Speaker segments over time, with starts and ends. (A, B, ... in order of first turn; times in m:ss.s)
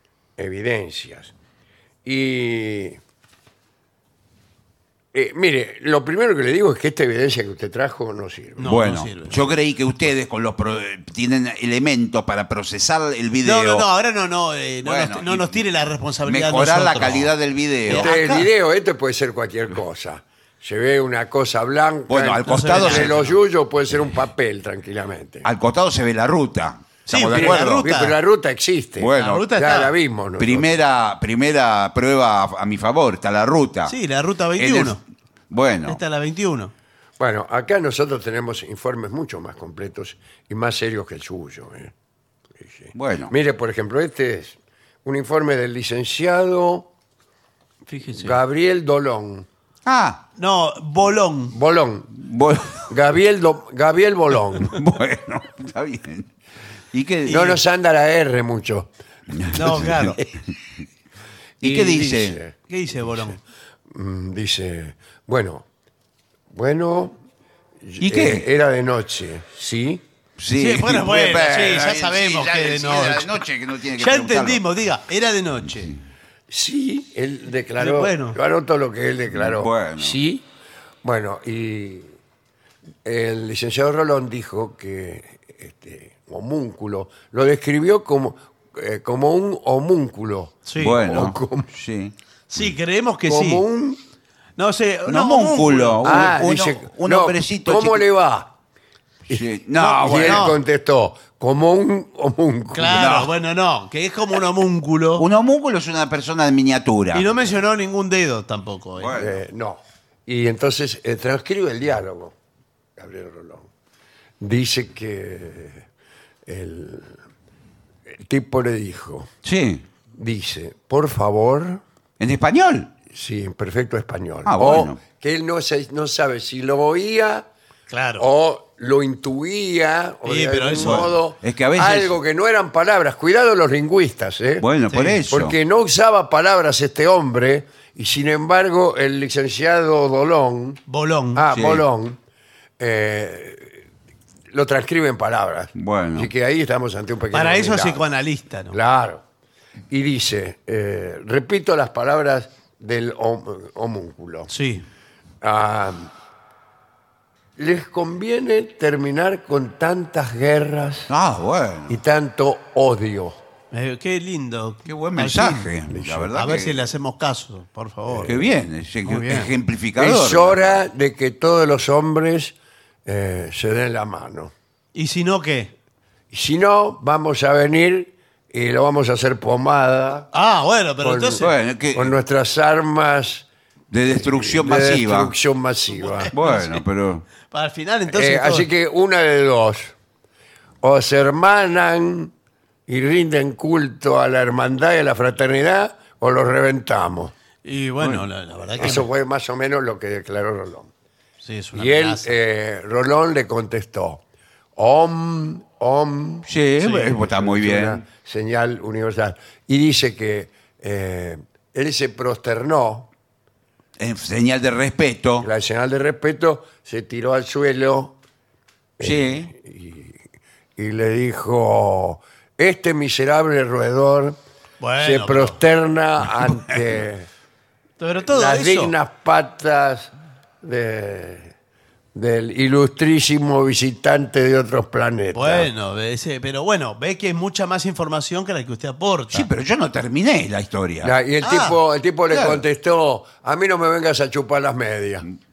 0:00.4-0:01.3 A
0:02.0-0:03.0 A
0:05.1-0:08.7 A
0:08.6-0:09.4 B
0:08.6-0:13.9 C
0:13.4-0:17.3 B
0:14.8-0:15.6 C
0:16.2-0:18.1 C
0:17.9-0:18.5 B
0:17.9-0:25.5 A
0:22.1-0:23.3 C
0:22.5-0:23.3 B
0:25.4-0:27.9 C
0:27.1-0:28.2 B
0:27.3-0:30.6 A
0:29.0-0:29.5 C
0:29.2-0:29.9 B
0:30.4-0:34.0 C
0:33.9-0:35.0 B
0:34.6-0:36.0 C
0:35.9-0:36.7 B
0:37.2-0:41.9 A
0:42.6-0:46.9 A
0:43.0-0:43.3 C
0:47.9-0:48.4 B
0:48.2-0:49.5 A
0:49.9-0:50.2 C
0:50.4-0:51.6 B
0:51.5-0:52.1 A
0:52.2-0:52.9 C
0:52.9-0:54.8 A
0:54.7-0:56.3 C
0:56.9-0:57.6 C
0:57.3-0:58.9 A
0:59.3-1:00.2 C
0:59.5-1:00.2 B
1:01.6-1:02.4 C
1:01.6-1:02.6 A
1:02.7-1:03.4 B
1:03.9-1:05.7 A
1:06.5-1:07.2 A
1:07.8-1:10.0 A
1:08.0-1:08.5 C
1:10.4-1:14.6 C
1:10.6-1:13.4 B
1:14.0-1:16.0 B
1:16.5-1:20.4 A
1:17.8-1:18.4 B
1:19.3-1:20.2 C
1:21.0-1:22.2 A
1:23.0-1:31.7 A
1:30.7-1:31.0 B
1:30.8-1:32.2 C
1:32.5-1:33.6 B
1:33.3-1:34.0 A
1:34.6-1:36.3 B
1:35.1-1:38.1 C
1:36.0-1:38.5 A
1:39.3-1:40.5 C
1:39.3-1:43.0 A
1:39.8-1:40.6 B
1:42.7-1:45.3 B
1:43.0-1:43.3 C
1:45.2-1:47.3 C
1:47.1-1:49.3 B
1:49.0-1:49.3 C
1:49.1-1:52.3 A
1:53.0-1:53.7 A
1:54.4-1:55.9 A
1:56.5-1:57.2 A
1:58.1-1:59.3 A
1:59.4-1:59.8 C
2:00.2-2:01.8 A
2:02.2-2:02.9 C
2:03.1-2:07.5 A
2:04.5-2:05.0 C
2:07.9-2:08.3 B
2:08.2-2:14.6 A
2:10.2-2:11.1 B
2:10.8-2:12.1 C
2:14.6-2:15.6 C
2:14.9-2:15.2 B
2:15.3-2:20.8 A
2:20.9-2:21.5 B
2:21.4-2:22.2 A
2:21.5-2:21.8 C
2:22.8-2:23.8 A
2:24.5-2:28.0 A
2:25.8-2:26.3 C
2:27.3-2:28.8 B
2:28.7-2:29.2 A
2:29.9-2:34.5 A
2:34.5-2:34.9 B
2:35.4-2:36.1 A
2:37.6-2:41.1 A
2:41.1-2:42.0 C
2:41.9-2:43.4 A
2:43.7-2:45.7 B
2:44.9-2:46.9 C
2:46.0-2:46.3 A
2:46.3-2:48.5 B
2:48.3-2:50.8 C
2:49.0-2:49.5 B
2:50.0-2:54.5 A
2:54.9-2:55.7 B
2:56.3-3:00.3 A
3:00.3-3:01.5 B
3:01.0-3:03.5 A
3:01.4-3:02.1 C
3:03.9-3:05.3 C
3:04.1-3:06.3 A
3:06.0-3:06.8 B
3:06.3-3:07.3 C
3:07.5-3:08.7 B
3:08.1-3:09.9 A
3:10.8-3:12.3 A
3:12.9-3:17.3 A
3:17.6-3:19.1 B
3:18.8-3:20.9 A
3:21.4-3:22.3 B
3:21.7-3:24.2 A
3:24.8-3:33.1 A
3:26.5-3:28.0 C
3:34.0-3:35.5 C
3:35.4-3:38.2 A
3:39.0-3:40.2 A
3:39.0-3:39.5 C
3:40.8-3:44.4 A
3:44.8-3:45.6 B
3:45.0-3:47.3 A
3:48.0-3:49.0 B
3:48.2-3:50.1 A
3:50.6-3:51.5 A
3:52.2-3:55.7 A
3:55.3-3:59.5 B
3:59.3-4:01.1 C
4:01.0-4:05.2 A
4:01.4-4:01.8 B
4:02.3-4:02.6 C